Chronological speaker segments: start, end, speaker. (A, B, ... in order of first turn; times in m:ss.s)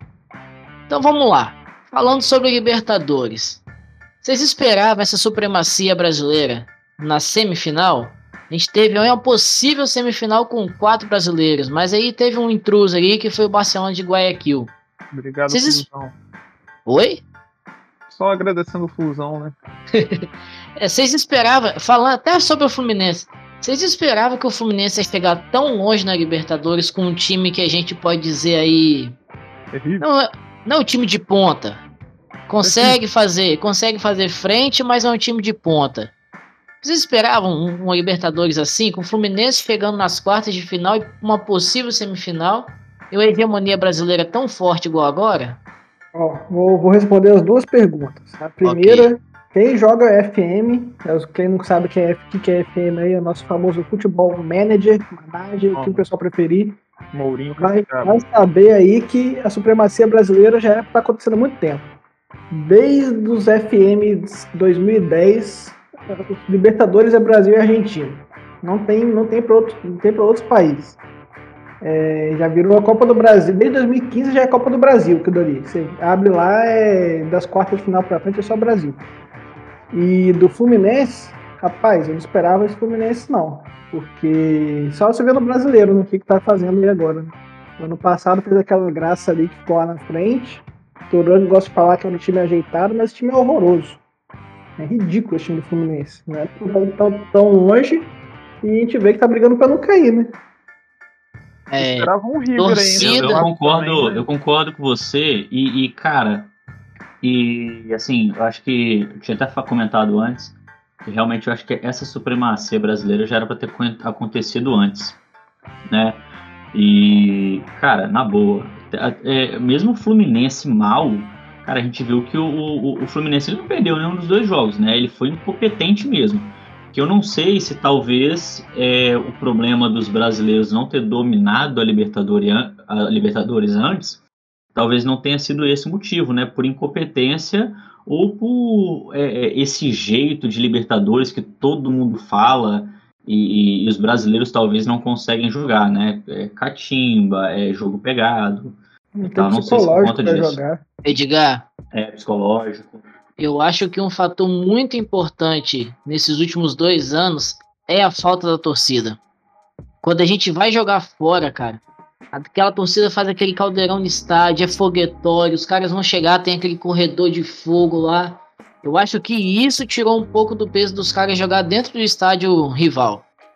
0:00.9-0:03.6 A
0:04.2-0:14.7 A
0:15.1-0:16.1 B
0:15.5-0:15.8 A
0:16.8-0:17.2 A
0:18.1-0:19.5 B
0:19.9-0:29.2 A
0:29.7-0:30.0 B
0:30.0-0:31.8 A
0:32.5-0:36.1 A
0:32.6-0:33.0 B
0:36.8-0:45.6 A
0:46.1-0:56.8 C
0:48.6-0:49.1 A
0:55.7-0:56.0 B
0:57.1-0:58.2 B
0:57.6-1:01.9 C
1:02.5-1:11.0 C
1:11.8-1:19.0 C
1:19.9-1:34.0 C
1:34.8-1:40.4 C
1:41.7-1:43.4 A
1:41.8-1:44.3 B
1:43.0-1:46.5 D
1:47.2-1:55.2 D
1:55.9-2:14.2 D
2:14.7-2:30.6 D
2:29.2-2:30.8 C
2:31.0-2:31.6 A
2:31.9-2:33.0 D
2:33.4-2:39.2 A
2:40.0-2:53.2 A